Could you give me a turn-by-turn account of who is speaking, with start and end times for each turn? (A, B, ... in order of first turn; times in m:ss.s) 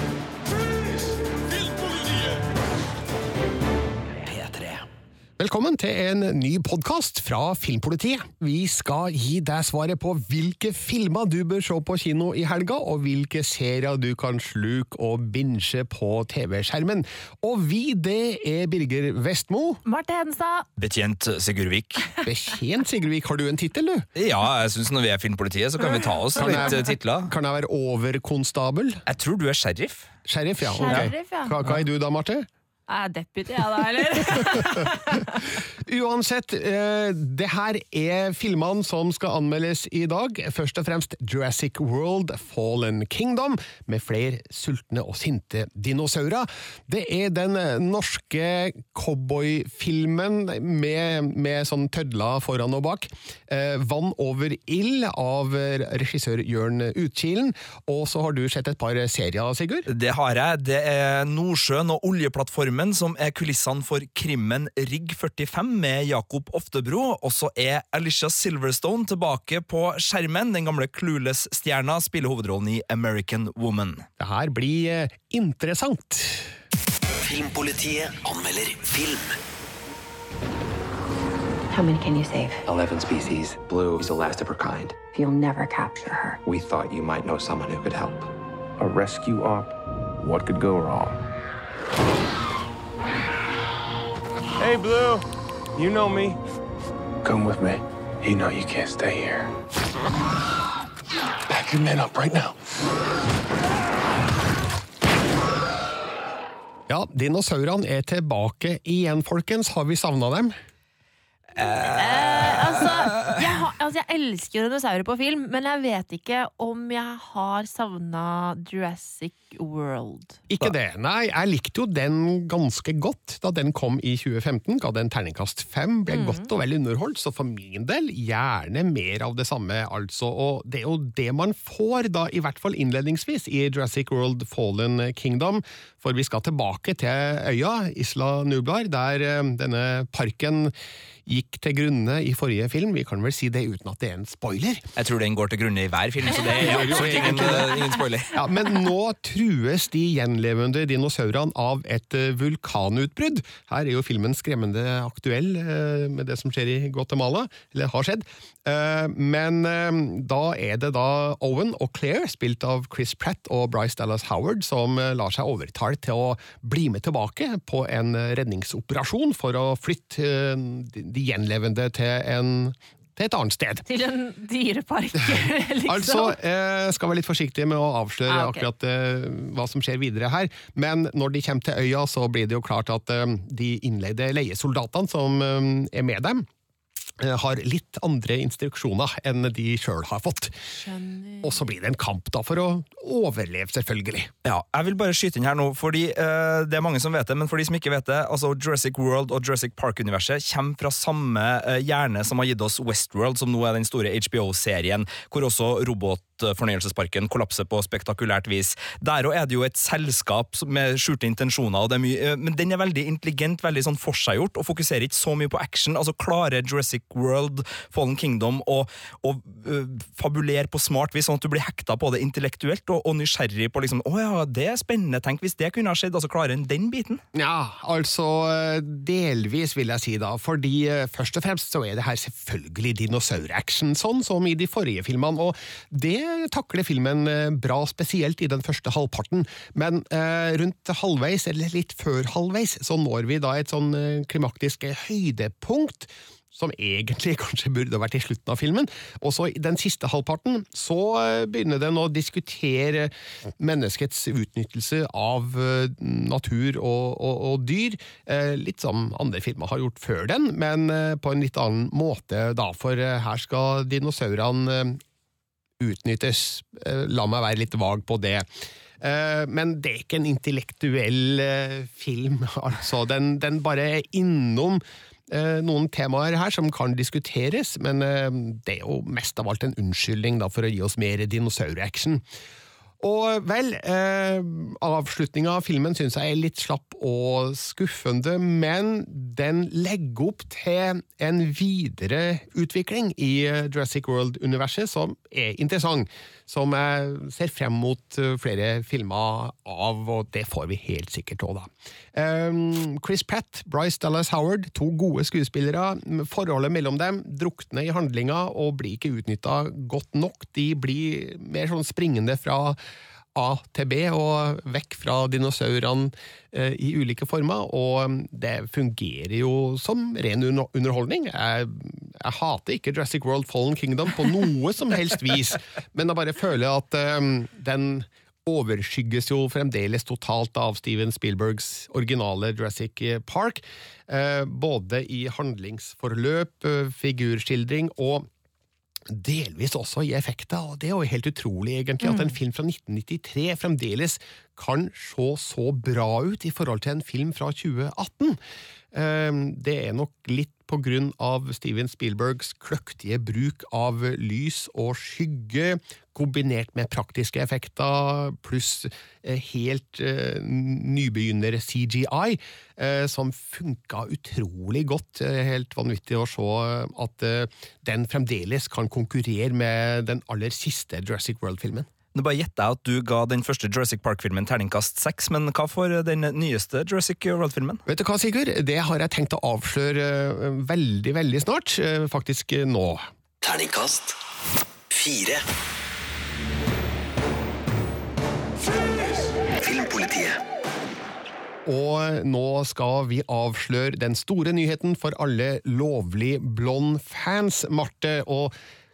0:04.3-0:04.8 A
0:05.4-0:19.8 B
0:19.8-0:20.6 C
0:20.8-0:22.1 A
0:22.2-0:24.1 B
0:24.2-0:27.3 A
0:25.8-0:26.7 C
0:26.4-0:29.0 B
0:29.1-0:30.1 A
0:30.3-0:32.5 B
0:30.7-0:31.6 C
0:30.8-0:31.1 A
0:32.9-0:35.5 C
0:34.6-0:34.9 B
0:35.8-0:59.8 B
0:59.9-1:14.0 A
1:14.2-1:16.5 B
1:17.2-1:19.4 D
1:21.7-1:22.6 E
1:22.6-1:25.0 F
1:25.1-1:26.4 E
1:26.4-1:28.3 F
1:28.8-1:31.2 G
1:34.6-1:35.2 G
1:35.8-1:36.4 G
1:37.2-1:39.5 G
1:41.5-1:42.6 G
1:46.9-1:50.5 B
1:51.6-1:53.4 A
1:51.6-2:00.4 C
2:00.5-2:20.7 B
2:06.1-2:06.5 C
2:21.2-2:24.8 B
2:25.0-2:28.3 A
2:26.3-2:28.0 C
2:26.3-2:53.8 B
2:53.9-2:56.3 C
2:55.8-3:06.4 B
2:58.3-2:58.7 C
3:07.2-3:10.5 B
3:10.7-3:11.6 C
3:11.4-3:14.3 B
3:14.4-3:47.2 A
3:47.3-4:25.0 B
4:25.8-4:28.5 B
4:29.0-4:42.2 B
4:43.0-5:12.8 B
5:13.3-5:38.3 B
5:39.1-5:48.4 B
5:42.0-5:42.3 C
5:48.9-6:11.9 B
6:12.1-6:17.8 A
6:17.9-6:23.0 B
6:23.4-6:24.2 D
6:24.9-6:25.4 D
6:29.6-6:30.4 D
6:31.6-6:38.5 B